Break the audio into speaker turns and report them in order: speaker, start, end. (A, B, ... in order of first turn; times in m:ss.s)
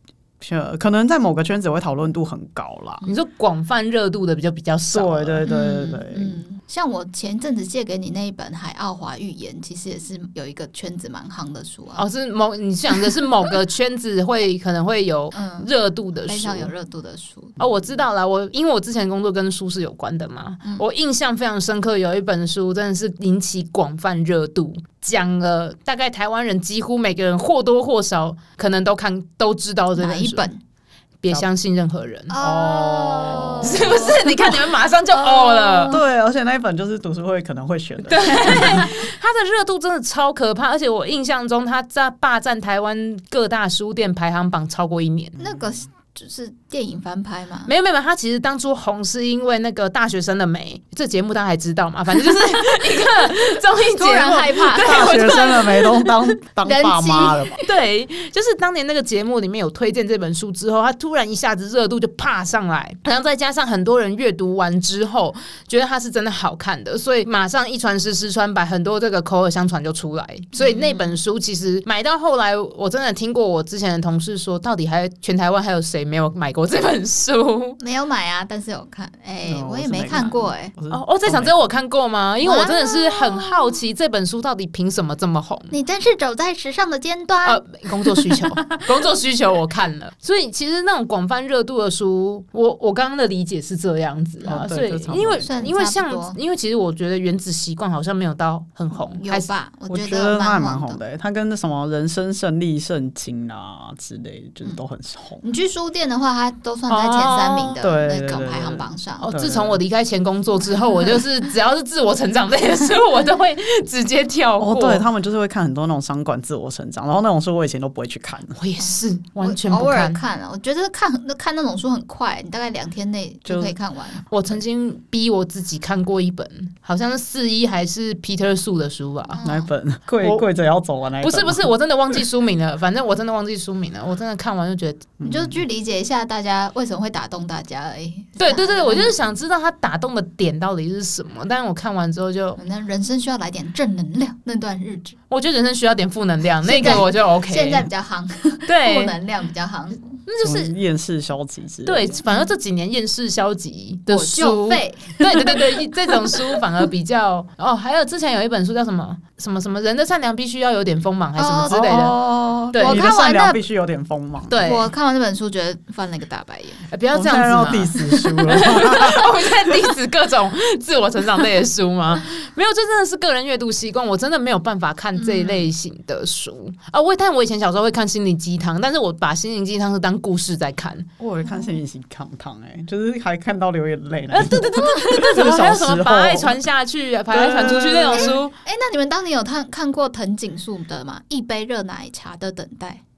0:00.4-0:03.1 A
0:03.0-0:05.5 B
0:04.9-0:06.4 A
0:05.4-0:12.0 C
0:12.0-0:16.7 B
0:15.3-0:15.7 C
0:16.3-0:17.6 C
0:17.6-0:30.5 B
0:30.0-0:30.6 C
0:31.2-0:32.4 B
0:32.3-0:34.2 C
0:32.4-0:34.3 A
0:33.6-0:36.0 B
0:35.3-0:36.0 C
0:35.9-0:38.9 A
0:38.1-0:45.4 B
0:45.4-0:47.7 C
0:47.7-0:56.1 B
0:54.0-0:55.3 C
0:54.7-0:57.6 A
0:56.6-0:57.6 C
0:57.6-1:17.8 B
1:10.6-1:11.2 C
1:17.8-1:20.7 C
1:19.4-1:21.5 A
1:20.9-1:25.7 B
1:22.4-1:23.8 C
1:25.7-1:28.8 C
1:27.4-1:39.5 B
1:34.4-1:35.5 A
1:35.3-1:36.4 C
1:38.9-1:41.0 C
1:39.9-1:45.4 A
1:45.4-1:49.3 C
1:46.9-1:47.8 B
1:47.8-1:49.8 A
1:49.2-1:55.0 B
1:54.6-1:58.6 A
1:58.6-2:00.2 B
1:58.8-2:04.3 C
2:03.5-2:03.8 A
2:04.3-2:09.4 B
2:09.4-2:09.7 C
2:09.4-2:11.7 A
2:11.2-2:15.1 B
2:15.2-2:15.6 A
2:15.2-2:19.2 C
2:18.4-2:22.6 B
2:22.6-2:25.2 C
2:25.3-2:27.9 B
2:26.6-2:30.2 C
2:28.7-2:29.2 B
2:30.3-2:30.7 B
2:30.4-2:32.2 A
2:31.8-2:42.2 B
2:34.1-2:36.4 C
2:41.4-2:43.6 C
2:41.7-2:44.6 A
2:42.7-2:43.0 B
2:44.5-2:44.9 B
2:44.6-2:46.9 C
2:46.9-3:01.1 B
2:47.1-2:49.9 A
2:55.2-2:55.7 C
3:01.2-3:06.6 A
3:01.4-3:01.8 C
3:04.3-3:08.5 B
3:07.3-3:08.4 A
3:08.1-3:13.0 C